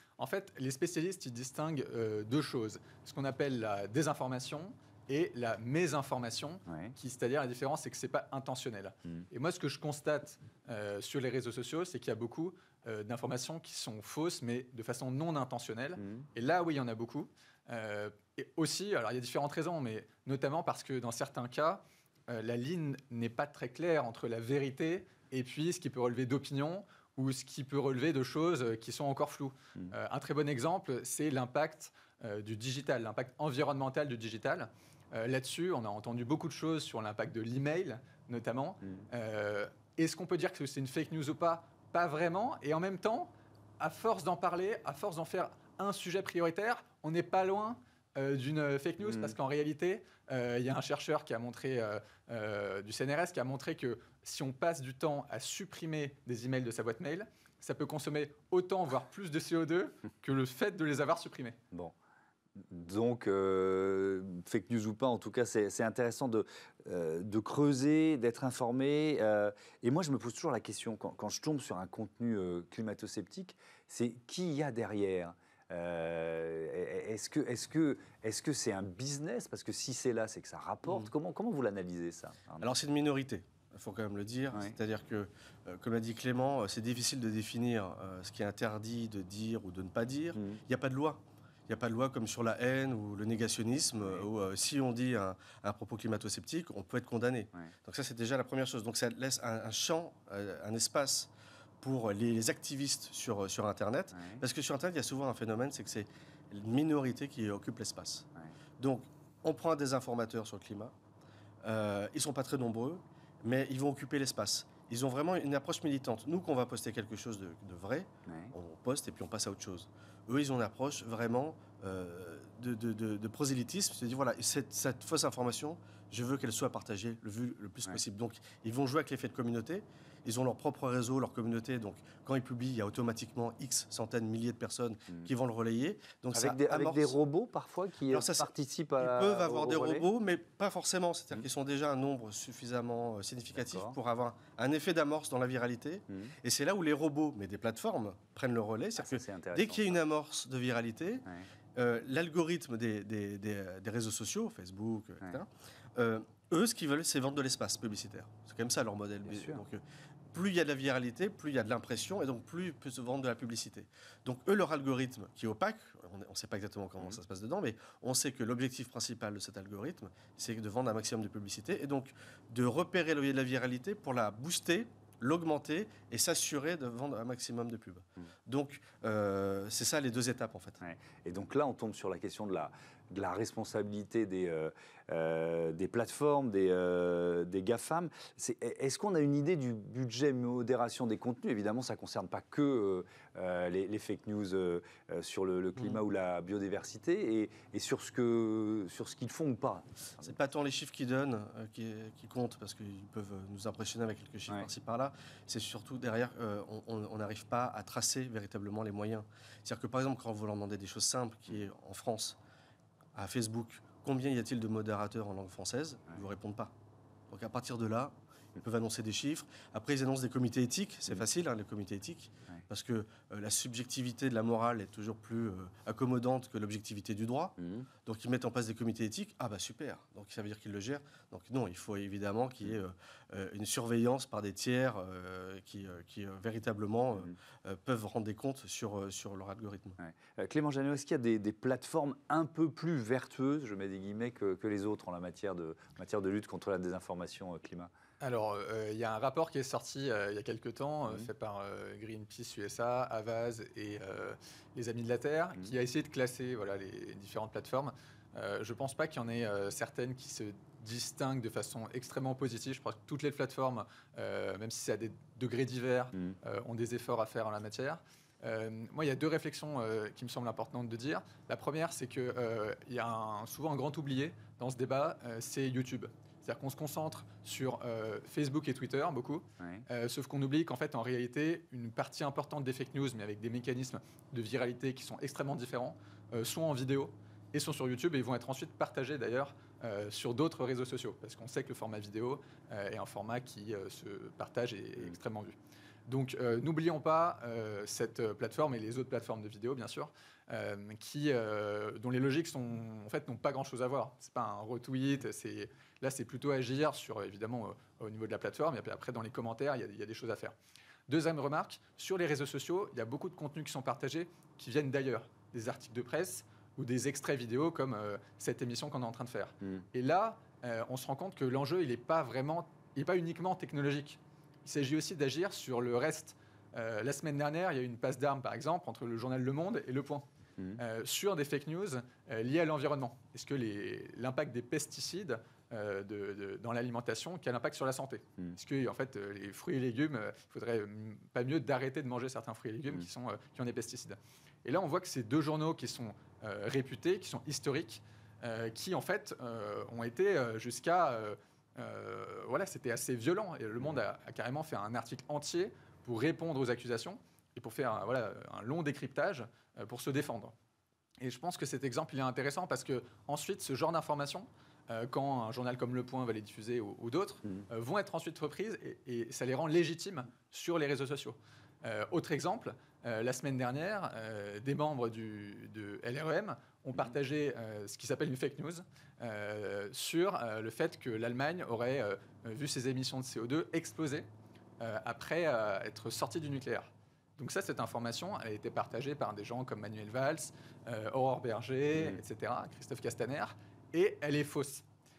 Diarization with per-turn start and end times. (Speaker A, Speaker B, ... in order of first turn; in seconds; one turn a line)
Speaker A: 0.2-61.6
Speaker B: 6.7-6.9
Speaker B: 16.0-16.3
Speaker B: 49.0-49.4
Speaker B: 62.6-82.7
Speaker C: 82.6-108.3
Speaker B: 90.4-90.6
Speaker B: 104.1-104.4
Speaker C: 108.8-110.9
Speaker C: 111.6-137.2
Speaker B: 118.3-118.5
Speaker B: 136.3-140.1
Speaker C: 138.1-159.8
Speaker B: 143.5-144.0
Speaker B: 146.1-146.3
Speaker B: 149.0-150.0
Speaker B: 159.2-159.6
Speaker C: 160.3-180.8
Speaker B: 180.8-200.3
Speaker C: 200.2-212.4
Speaker C: 213.2-216.7
Speaker C: 217.3-240.0
Speaker B: 227.6-227.9
Speaker B: 240.0-247.9
Speaker A: 248.2-295.6
Speaker B: 279.6-279.9
Speaker A: 296.1-310.6
Speaker A: 311.1-330.3
Speaker A: 330.8-360.5
Speaker A: 361.2-384.3
Speaker A: 384.8-394.9